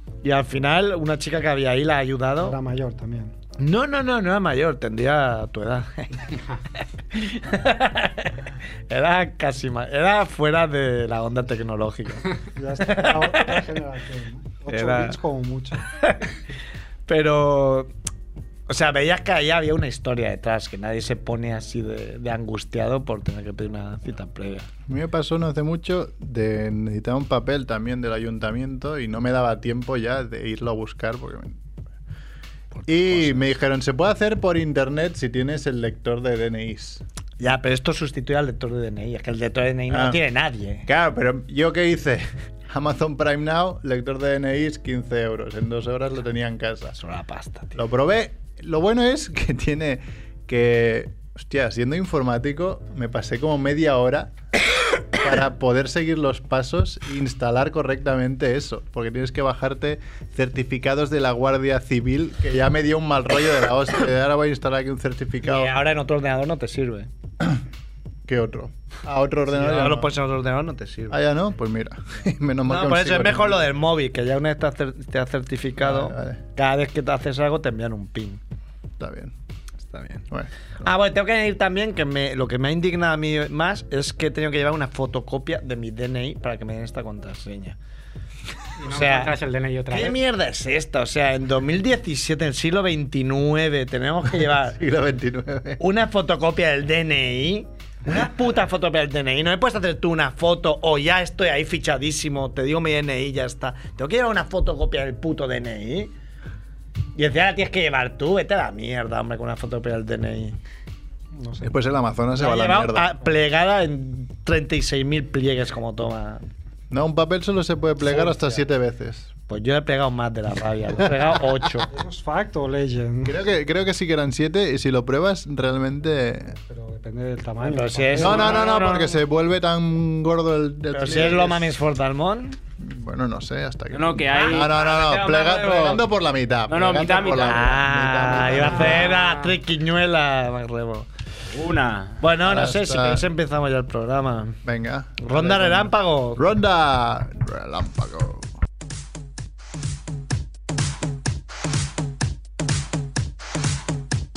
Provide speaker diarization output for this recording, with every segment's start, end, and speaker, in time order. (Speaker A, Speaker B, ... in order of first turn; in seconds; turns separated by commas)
Speaker A: 0.2-2.6, Speaker B: 2.4-3.3, Speaker A: 3.6-12.3, Speaker B: 12.6-15.8, Speaker A: 12.8-13.6, Speaker A: 14.7-15.2, Speaker A: 15.9-16.3, Speaker A: 17.1-17.9, Speaker A: 18.7-24.7, Speaker C: 24.9-31.6, Speaker A: 32.7-33.4, Speaker C: 32.9-37.0, Speaker A: 37.4-40.9, Speaker C: 39.9-40.2, Speaker C: 40.9-47.0, Speaker A: 47.0-47.8, Speaker C: 47.8-54.3, Speaker C: 55.2-65.7, Speaker A: 65.4-67.1, Speaker C: 68.2-70.1, Speaker A: 69.5-71.2, Speaker C: 71.1-73.6, Speaker A: 72.7-78.4, Speaker C: 75.8-76.4, Speaker C: 79.0-79.3, Speaker A: 79.9-80.2, Speaker A: 80.8-87.8, Speaker D: 88.8-90.2, Speaker A: 88.8-89.4, Speaker A: 89.9-94.8, Speaker C: 94.6-95.8, Speaker A: 95.8-106.1, Speaker A: 107.2-110.6, Speaker B: 111.3-111.7, Speaker C: 111.6-113.1, Speaker A: 112.3-116.4, Speaker C: 116.9-119.3, Speaker B: 118.2-118.6, Speaker A: 119.5-121.9, Speaker B: 121.9-123.4, Speaker C: 123.2-126.6, Speaker B: 126.7-128.7, Speaker A: 127.6-129.1, Speaker C: 128.2-131.8, Speaker A: 130.9-132.6, Speaker C: 132.8-139.1, Speaker E: 133.9-136.1, Speaker E: 136.7-137.8, Speaker A: 137.4-141.1, Speaker D: 138.8-139.6, Speaker E: 141.5-142.2, Speaker A: 142.2-144.6, Speaker C: 142.4-143.3, Speaker C: 144.6-148.5, Speaker A: 145.2-146.4